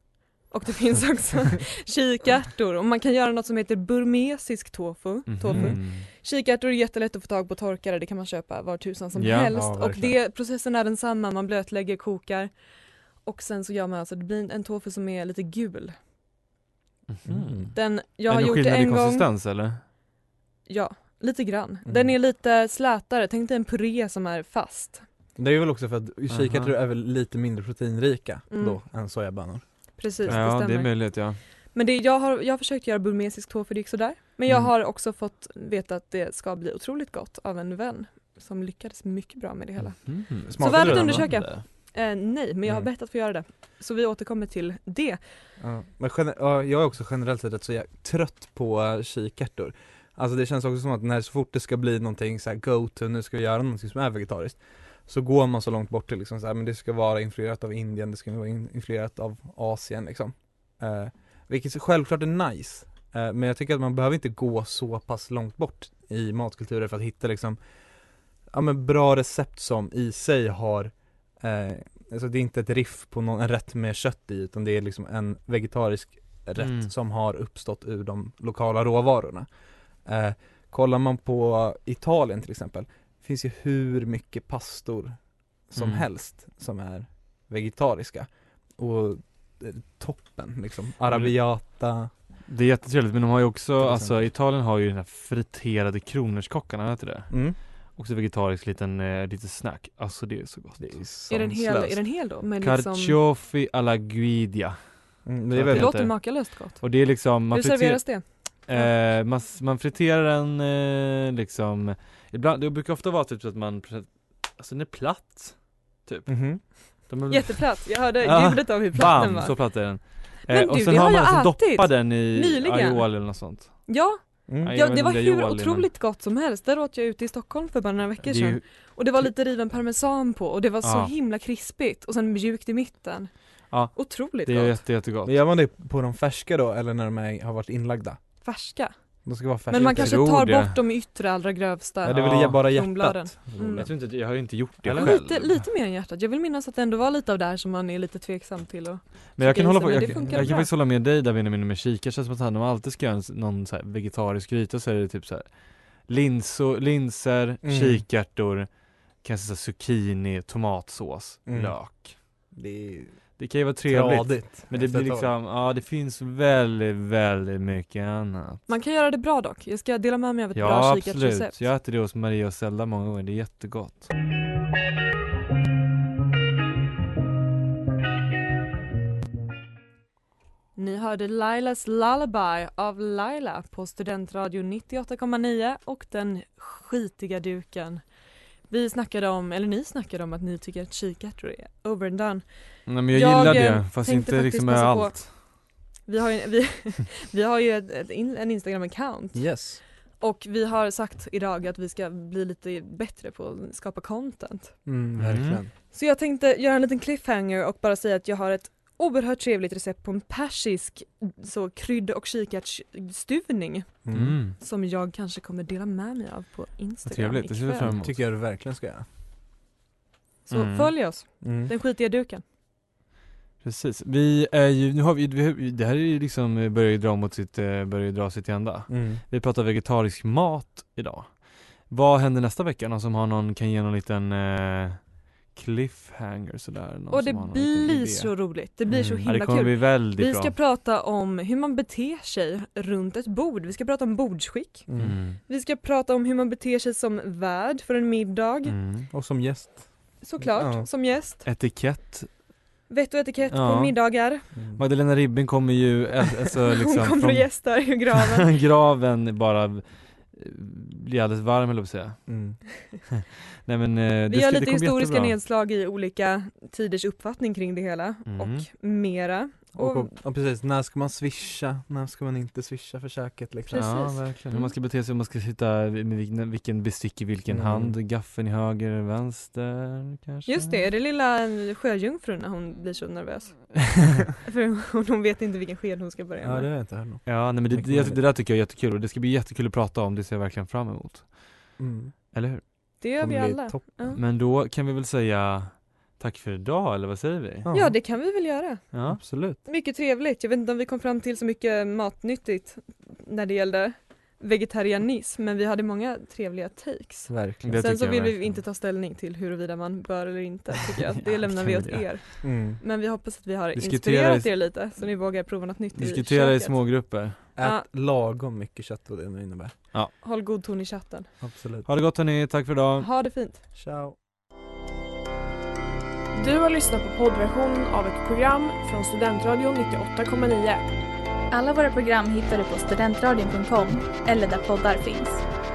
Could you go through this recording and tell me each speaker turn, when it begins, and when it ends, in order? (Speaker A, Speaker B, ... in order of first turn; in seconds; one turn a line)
Speaker A: 0.4-12.5
Speaker B: 5.3-6.1
Speaker C: 5.5-5.8
Speaker B: 9.2-9.5
Speaker C: 9.5-10.2
Speaker A: 13.2-15.9
Speaker B: 17.1-19.8
Speaker C: 17.2-17.7
Speaker A: 17.7-19.3
Speaker A: 20.7-25.0
Speaker C: 21.9-22.1
Speaker C: 25.4-30.4
Speaker B: 26.3-26.7
Speaker A: 28.5-28.8
Speaker A: 30.0-45.2
Speaker B: 30.3-31.4
Speaker B: 40.0-41.6
Speaker C: 40.5-41.5
Speaker C: 45.6-67.6
Speaker C: 68.5-79.5
Speaker B: 76.6-76.9
Speaker C: 80.0-92.1
Speaker B: 85.8-86.0
Speaker B: 91.1-91.3
Speaker B: 92.5-101.0
Speaker C: 93.8-94.3
Speaker C: 97.3-97.6
Speaker C: 100.8-102.0
Speaker A: 101.3-103.2
Speaker B: 102.6-104.8
Speaker C: 105.2-106.0
Speaker B: 105.5-123.9
Speaker A: 105.7-106.8
Speaker A: 107.5-108.9
Speaker C: 116.3-116.6
Speaker A: 117.3-134.8
Speaker C: 124.5-124.8
Speaker B: 124.6-125.9
Speaker B: 128.2-128.7
Speaker B: 130.8-131.1
Speaker B: 133.7-135.4
Speaker C: 135.2-138.2
Speaker A: 138.4-143.9
Speaker C: 139.2-140.3
Speaker B: 139.7-140.8
Speaker C: 142.0-143.9
Speaker B: 142.0-142.7
Speaker B: 143.8-145.7
Speaker C: 144.8-145.2
Speaker A: 144.9-150.7
Speaker B: 149.4-162.2
Speaker C: 150.0-150.6
Speaker C: 157.6-158.0
Speaker C: 161.5-161.8
Speaker C: 162.5-163.2
Speaker B: 163.4-168.6
Speaker C: 163.8-165.3
Speaker A: 168.7-171.6
Speaker B: 170.5-174.1
Speaker A: 180.8-188.0
Speaker A: 188.7-195.5
Speaker B: 192.9-195.4
Speaker A: 196.1-199.6
Speaker C: 199.3-199.8
Speaker A: 200.2-204.8
Speaker C: 204.9-205.7
Speaker B: 205.2-205.6
Speaker A: 205.9-214.1
Speaker C: 214.0-214.4
Speaker B: 214.1-214.6
Speaker A: 214.6-217.9
Speaker B: 217.0-218.2
Speaker C: 217.8-219.1
Speaker A: 220.5-222.4
Speaker B: 220.5-220.9
Speaker C: 221.4-221.7
Speaker B: 223.6-238.5
Speaker C: 228.9-229.2
Speaker A: 237.1-248.8
Speaker C: 238.9-239.3
Speaker B: 239.3-240.5
Speaker C: 244.9-245.2
Speaker B: 245.0-245.4
Speaker B: 248.7-249.1
Speaker C: 249.1-250.9
Speaker A: 250.2-251.4
Speaker B: 251.4-252.3
Speaker A: 252.9-254.4
Speaker B: 253.5-262.4
Speaker C: 254.5-254.8
Speaker A: 256.6-258.5
Speaker C: 262.3-262.6
Speaker B: 263.2-265.4
Speaker A: 264.3-270.1
Speaker B: 268.2-268.7
Speaker C: 269.7-274.1
Speaker A: 273.7-274.7
Speaker B: 273.7-280.8
Speaker C: 277.5-277.9
Speaker A: 280.4-286.7
Speaker C: 286.4-288.2
Speaker B: 287.2-291.6
Speaker C: 291.8-292.1
Speaker B: 292.3-292.6
Speaker A: 293.0-294.2
Speaker C: 293.2-294.2
Speaker B: 294.1-297.7
Speaker C: 297.6-297.9
Speaker A: 297.7-298.8
Speaker B: 298.9-299.2
Speaker C: 299.1-299.6
Speaker A: 299.6-317.9
Speaker C: 307.3-307.9
Speaker B: 307.6-308.6
Speaker B: 311.1-312.2
Speaker C: 312.4-312.8
Speaker B: 313.8-314.6
Speaker B: 315.9-317.4
Speaker C: 317.6-319.8
Speaker A: 320.2-321.3
Speaker C: 321.4-321.9
Speaker B: 321.9-323.1
Speaker A: 323.0-323.6
Speaker C: 323.8-324.1
Speaker D: 326.3-330.9
Speaker E: 331.5-335.4